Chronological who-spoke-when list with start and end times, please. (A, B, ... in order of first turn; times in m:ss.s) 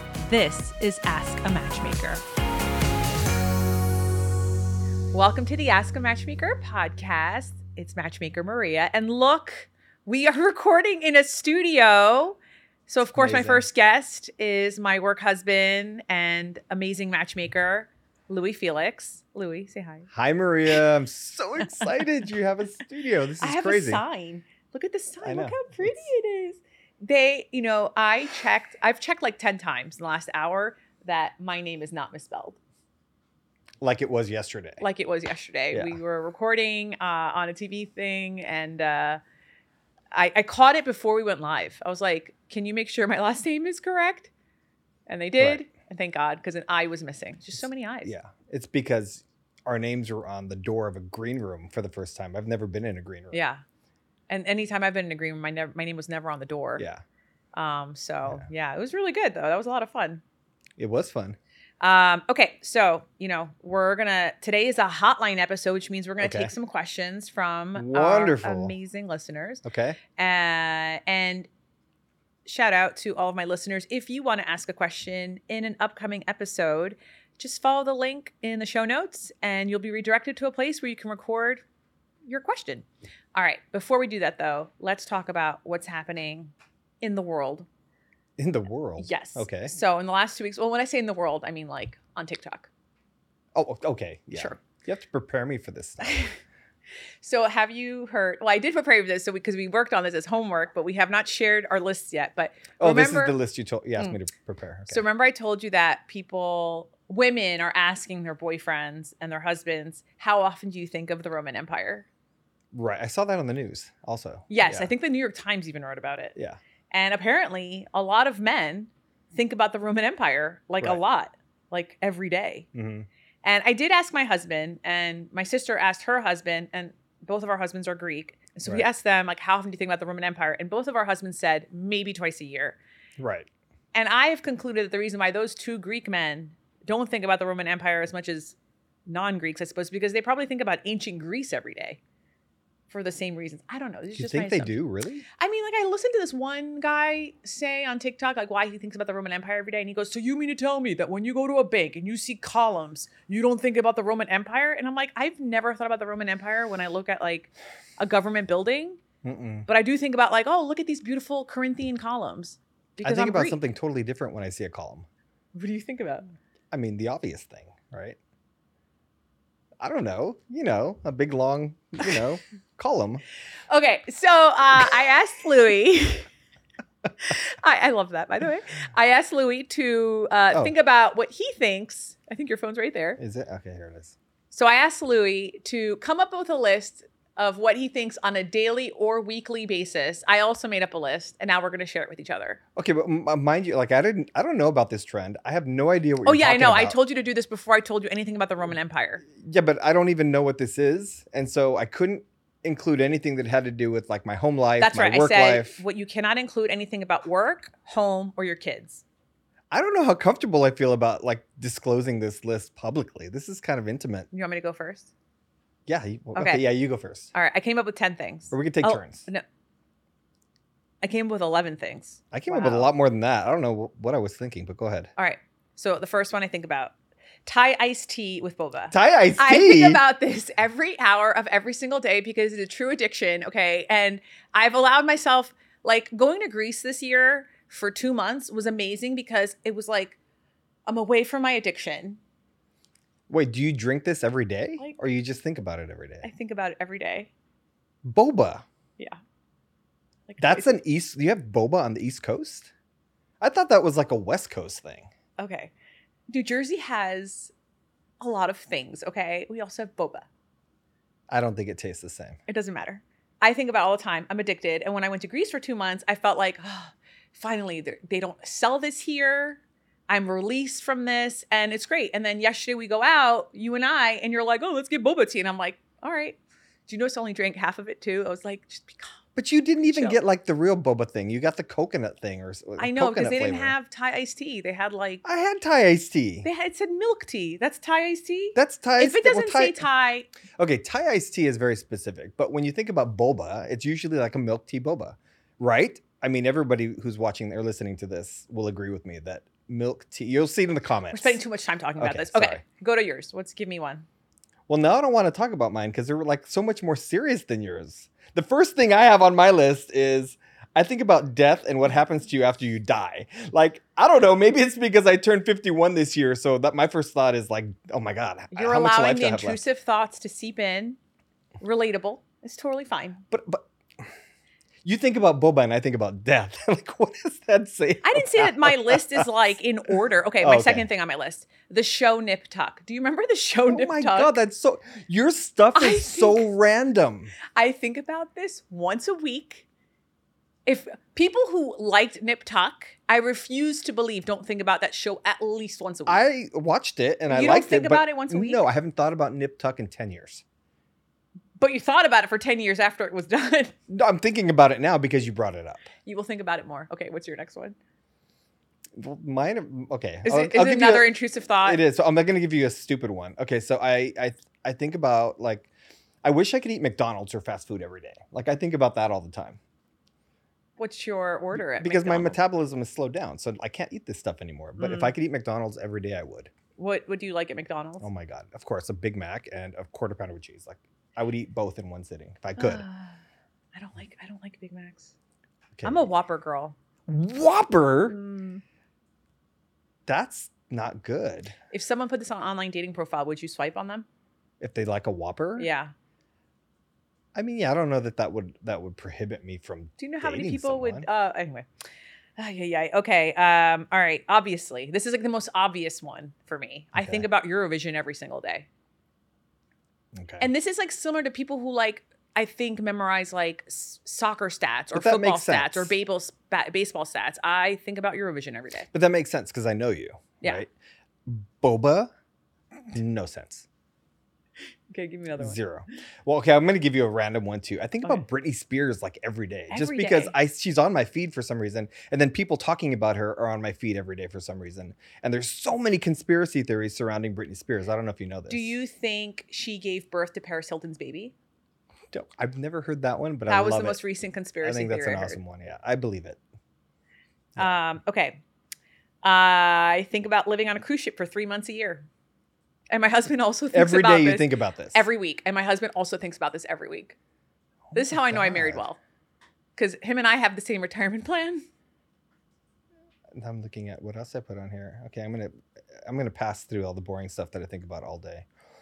0:00.2-0:02.2 A
0:05.1-0:20.1 A
0:13.1-0:13.6 B
0:20.1-0:24.0 B
0:23.4-0:32.6 A
0:25.2-0:26.1 B
0:33.8-0:34.8 B
0:34.8-0:39.2 A
0:35.7-0:36.0 B
0:40.1-0:44.3 A
0:45.1-0:48.1 A
0:45.4-0:45.6 B
0:48.0-0:53.4 B
0:53.3-0:53.6 A
0:54.3-0:56.9 A
0:56.8-0:57.0 B
0:57.5-1:00.2 A
1:00.8-1:01.4 B
1:01.8-1:09.6 A
1:06.2-1:06.5 B
1:07.8-1:08.7 B
1:09.6-1:10.0 B
1:10.2-1:11.5 A
1:12.5-1:21.6 A
1:22.3-1:27.7 A
1:28.4-1:29.7 B
1:29.0-1:32.7 A
1:33.6-1:36.2 B
1:37.2-1:43.4 A
1:42.8-1:45.0 B
1:44.9-1:52.1 A
1:52.7-1:54.9 B
1:54.5-1:56.4 A
1:56.9-2:02.7 A
2:02.7-2:03.1 B
2:03.4-2:12.8 A
2:13.2-2:13.5 B
2:13.9-2:22.0 A
2:22.9-2:24.8 A
2:24.1-2:25.2 B
2:25.4-2:39.0 A
2:39.2-2:39.7 B
2:39.7-2:43.6 A
2:43.0-2:45.1 B
2:45.6-2:46.3 A
2:46.7-2:48.2 B
2:49.8-2:53.2 B
2:53.7-2:56.3 A
2:57.2-3:03.2 A
3:03.2-3:04.2 B
3:04.5-3:12.6 A
3:12.8-3:17.0 B
3:16.2-3:19.2 A
3:19.4-3:25.8 B
3:24.8-3:29.0 A
3:29.7-3:34.3 B
3:34.3-3:35.1 A
3:35.9-3:37.3 B
3:36.4-3:36.7 A
3:37.3-3:39.4 A
3:38.5-3:39.3 B
3:41.0-3:42.9 A
3:42.3-3:45.1 B
3:45.2-3:46.9 A
3:47.4-4:00.2 A
3:48.9-3:50.0 B
4:00.9-4:02.2 A
4:03.3-4:06.3 B
4:06.2-4:07.3 A
4:08.0-4:08.6 B
4:10.3-4:10.7 A
4:10.4-4:12.7 B
4:13.4-4:15.1 B
4:15.4-4:15.7 A
4:16.3-4:17.5 A
4:18.2-4:20.3 A
4:21.3-4:22.4 B
4:22.5-4:39.2 A
4:39.4-4:43.8 B
4:39.8-4:40.2 A
4:42.8-4:45.2 A
4:45.2-4:46.5 B
4:46.4-4:50.3 A
4:48.6-4:49.9 B
4:50.6-5:01.4 B
5:01.1-5:04.1 A
5:02.0-5:02.6 B
5:04.7-5:19.6 B
5:18.5-5:21.0 A
5:21.6-5:23.2 A
5:23.3-5:24.1 B
5:24.8-5:29.2 B
5:28.0-5:34.3 A
5:30.4-5:30.9 B
5:33.7-5:37.4 B
5:35.7-5:36.5 A
5:37.5-5:39.6 A
5:40.7-5:46.2 A
5:46.1-5:50.4 B
5:47.3-5:48.7 A
5:51.6-5:53.8 A
5:53.9-5:55.9 B
5:56.0-5:57.8 A
5:59.0-6:05.7 B
6:00.2-6:01.8 A
6:06.2-6:09.6 B
6:10.8-6:12.4 A
6:11.6-6:16.5 B
6:14.8-6:15.1 A
6:16.8-6:18.1 A
6:18.0-6:22.8 B
6:22.6-6:23.2 A
6:23.7-6:25.1 A
6:25.8-6:26.1 B
6:25.8-6:26.8 A
6:27.1-6:28.2 B
6:28.1-6:28.6 A
6:30.1-6:31.6 B
6:31.7-6:34.1 A
6:34.6-6:35.7 B
6:35.6-6:35.9 A
6:37.3-6:41.1 B
6:40.0-6:41.7 A
6:42.4-6:48.7 A
6:46.9-6:47.2 B
6:50.2-6:50.5 B
6:50.4-6:58.9 A
6:54.9-6:56.0 B
6:58.9-7:00.7 B
7:01.3-7:02.1 B
7:02.9-7:03.7 B
7:04.9-7:05.6 A
7:05.4-7:18.8 B
7:09.7-7:10.3 A
7:18.5-7:21.3 A
7:22.1-7:24.0 B
7:23.5-7:25.4 A
7:24.6-7:26.4 B
7:27.6-7:28.4 A
7:29.2-7:32.1 A
7:32.9-7:37.2 A
7:33.7-7:35.0 B
7:37.9-7:38.8 B
7:37.9-7:39.0 A
7:39.8-7:41.7 A
7:43.3-7:48.5 B